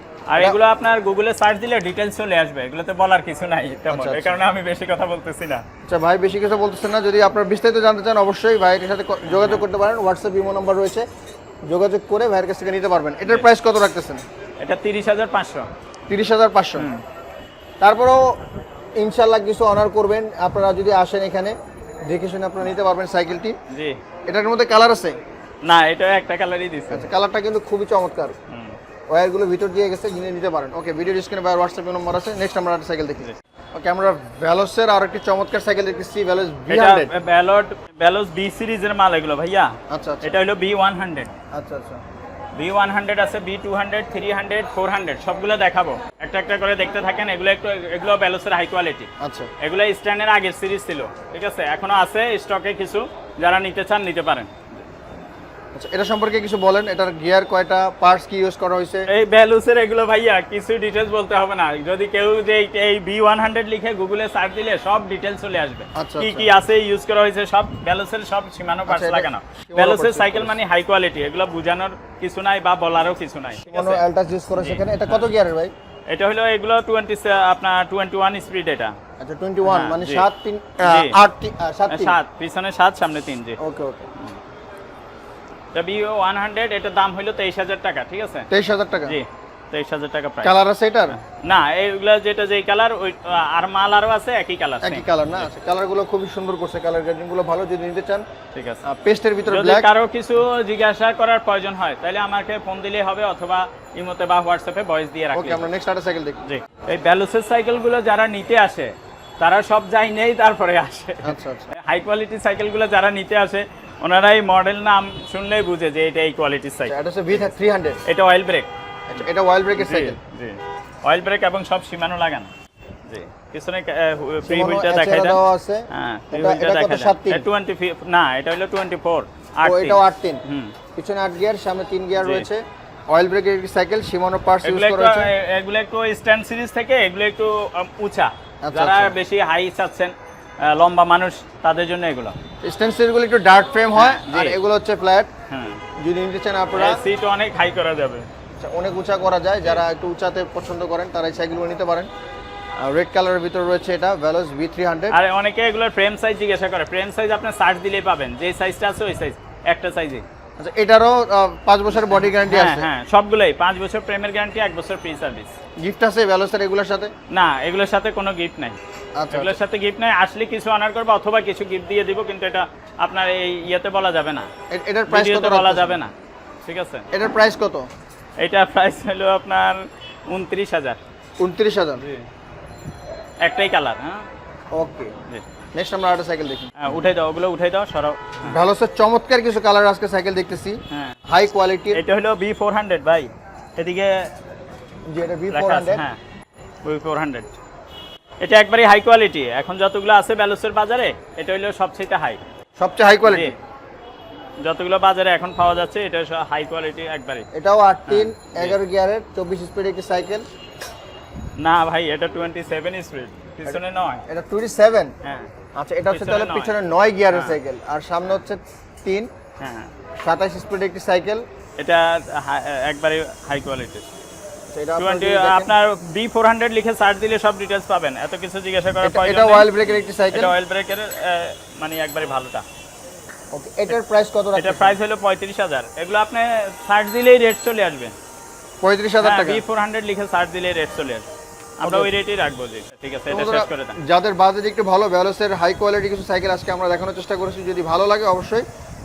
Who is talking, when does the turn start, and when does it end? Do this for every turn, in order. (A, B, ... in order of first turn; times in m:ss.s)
0:00.3-0:05.6 A
0:03.9-0:04.4 B
0:05.9-0:11.1 B
0:09.3-0:09.6 A
0:11.7-0:14.2 B
0:14.6-0:15.7 A
0:16.1-0:16.9 B
0:16.8-0:17.0 A
0:17.8-0:18.4 B
0:19.0-0:21.6 B
0:22.1-0:23.6 B
0:23.7-0:24.0 A
0:24.3-0:25.2 B
0:25.6-0:27.1 A
0:26.9-0:28.4 B
0:28.5-0:28.8 A
0:29.1-0:37.1 B
0:36.7-0:41.3 A
0:39.9-0:40.3 B
0:41.5-0:42.0 B
0:42.6-0:49.1 A
0:49.2-0:49.5 B
0:49.6-0:54.6 A
0:55.7-0:59.1 B
0:59.1-1:14.0 A
1:06.0-1:06.5 B
1:08.9-1:10.6 B
1:13.7-1:15.7 B
1:14.6-1:15.2 A
1:16.1-1:19.0 A
1:19.2-1:22.2 B
1:19.6-1:20.3 A
1:20.8-1:21.2 A
1:21.9-1:23.6 A
1:23.6-1:24.1 B
1:25.7-1:28.5 A
1:28.5-1:29.2 B
1:29.1-1:30.6 A
1:30.4-1:31.2 B
1:31.1-1:35.5 A
1:34.8-1:38.2 B
1:38.5-1:38.8 A
1:38.8-1:39.9 B
1:39.5-1:45.7 A
1:45.3-1:46.4 B
1:46.4-1:57.5 A
1:51.2-1:51.7 B
1:56.9-1:58.0 B
1:58.0-2:02.5 A
1:59.1-2:00.2 B
2:03.1-2:10.8 A
2:04.4-2:07.5 B
2:09.6-2:10.4 B
2:11.0-2:15.3 B
2:12.2-2:12.5 A
2:14.6-2:22.4 A
2:18.6-2:19.2 B
2:22.6-2:25.3 B
2:24.0-2:24.6 A
2:25.5-2:25.8 A
2:26.0-2:27.0 B
2:26.7-2:28.3 A
2:28.6-2:32.1 B
2:32.8-2:35.2 B
2:35.1-2:40.2 A
2:40.6-2:42.9 B
2:42.0-2:45.5 A
2:45.8-2:47.1 B
2:47.3-2:48.8 A
2:49.2-2:49.6 B
2:49.3-2:54.5 A
2:54.7-2:56.0 B
2:55.1-2:56.1 A
2:56.6-2:57.1 A
2:57.1-2:57.9 B
2:58.4-3:01.0 A
3:01.4-3:02.0 B
3:02.0-3:02.3 A
3:03.4-3:04.3 A
3:04.7-3:05.1 B
3:05.7-3:06.7 B
3:06.8-3:08.6 A
3:08.4-3:12.0 B
3:10.9-3:11.2 A
3:11.9-3:14.3 A
3:15.1-3:16.0 B
3:15.5-3:16.2 A
3:16.8-3:17.5 A
3:18.4-3:22.4 A
3:22.8-3:23.6 B
3:23.2-3:23.6 A
3:24.6-3:27.5 A
3:27.5-3:30.5 B
3:28.1-3:28.8 A
3:31.6-3:34.2 A
3:33.6-3:35.1 B
3:35.2-3:35.5 A
3:35.8-3:39.3 B
3:36.1-3:36.7 A
3:37.3-3:37.6 A
3:39.6-3:39.9 A
3:40.2-3:41.4 B
3:41.8-3:44.1 A
3:44.7-3:45.7 B
3:45.0-3:52.6 A
3:49.0-3:50.5 B
3:53.5-3:55.0 B
3:54.6-3:58.2 A
3:58.8-3:59.6 B
3:59.2-4:01.3 A
4:01.8-4:04.0 A
4:01.8-4:02.1 B
4:03.3-4:08.6 B